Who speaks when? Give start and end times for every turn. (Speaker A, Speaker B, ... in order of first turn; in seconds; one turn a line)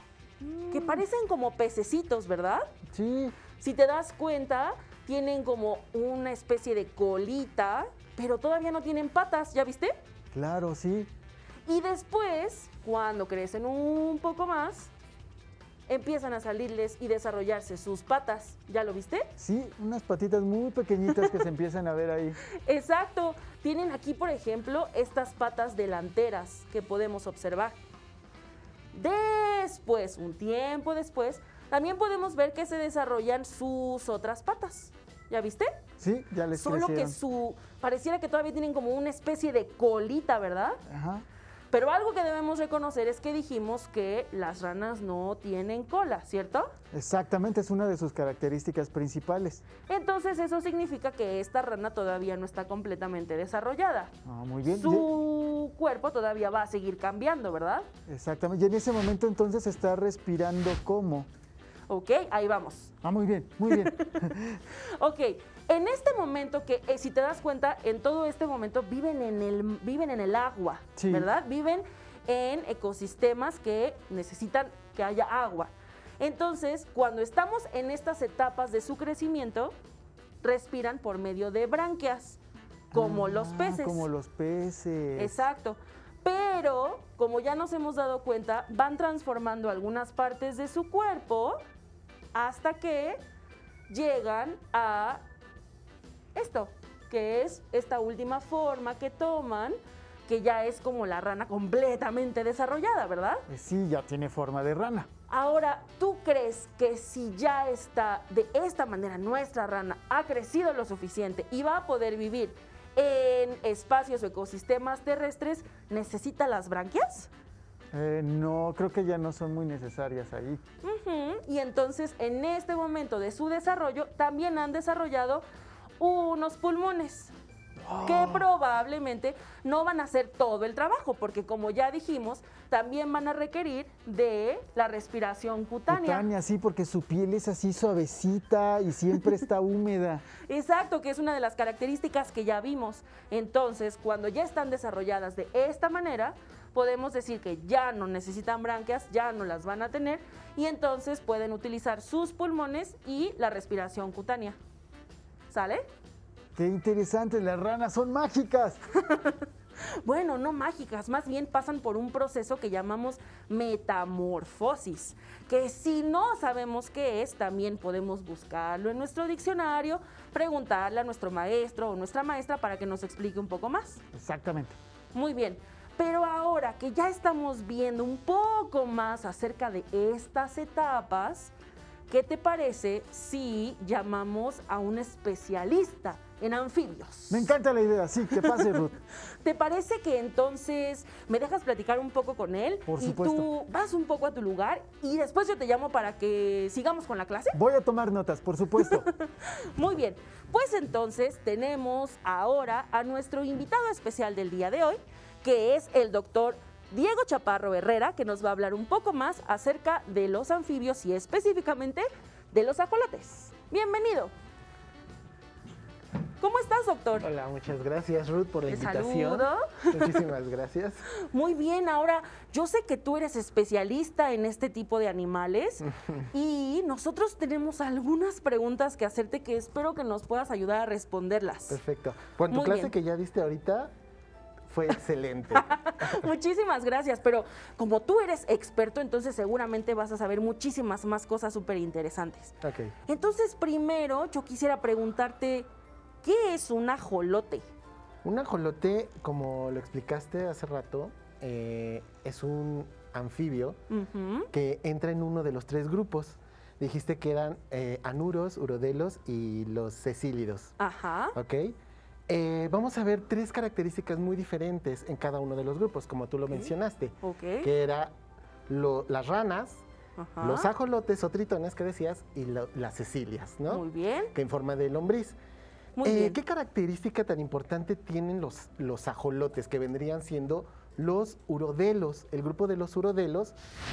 Speaker A: 0.4-1.0
Speaker B: 0.7-2.7
Speaker A: 2.9-3.4
Speaker B: 3.6-9.9
Speaker A: 10.3-11.1
Speaker B: 11.7-14.9
Speaker B: 15.9-19.3
Speaker A: 19.4-22.4
Speaker B: 22.5-27.8
Speaker B: 28.9-35.7
Speaker A: 36.0-37.2
Speaker B: 36.5-40.8
Speaker A: 40.9-41.2
Speaker B: 41.7-46.7
Speaker A: 46.9-49.6
Speaker B: 49.9-54.1
Speaker A: 54.2-55.1
Speaker B: 54.7-57.9
Speaker A: 58.1-61.3
Speaker B: 61.9-62.9
Speaker A: 63.0-64.6
Speaker B: 63.7-79.7
Speaker A: 71.0-71.3
Speaker B: 80.4-82.4
Speaker A: 82.9-85.5
Speaker B: 82.9-84.1
Speaker B: 85.2-91.6
Speaker B: 92.3-93.2
Speaker B: 93.9-95.2
Speaker B: 96.3-103.4
Speaker A: 103.5-105.1
Speaker B: 105.3-117.3
Speaker A: 117.9-120.6
Speaker B: 120.8-125.4
Speaker B: 126.0-127.3
Speaker A: 127.8-128.5
Speaker B: 128.0-136.3
Speaker A: 135.9-140.2
Speaker B: 140.4-154.6
Speaker B: 155.5-155.9
Speaker A: 156.6-158.8
Speaker B: 159.0-159.4
Speaker B: 160.0-174.0
Speaker A: 174.1-174.8
Speaker B: 175.1-181.5
Speaker B: 182.1-187.5
Speaker A: 187.3-189.0
Speaker B: 188.4-197.6
Speaker A: 192.8-193.5
Speaker A: 197.5-199.1
Speaker B: 198.8-214.3
Speaker B: 216.4-217.3
Speaker C: 217.2-221.0
Speaker B: 218.7-220.2
Speaker B: 221.2-231.8
Speaker C: 231.7-233.9
Speaker B: 232.5-232.9
Speaker C: 234.7-236.3
Speaker B: 235.6-242.5
Speaker C: 242.6-242.9
Speaker B: 243.1-245.7
Speaker B: 246.2-247.6
Speaker C: 248.2-253.8
Speaker B: 253.9-254.5
Speaker C: 254.5-260.7
Speaker B: 260.8-261.4
Speaker C: 261.3-261.8
Speaker C: 262.3-268.1
Speaker B: 267.2-267.7
Speaker C: 268.7-269.8
Speaker B: 270.2-270.7
Speaker C: 270.4-275.4
Speaker B: 273.7-274.3
Speaker B: 276.0-276.4
Speaker C: 276.0-283.6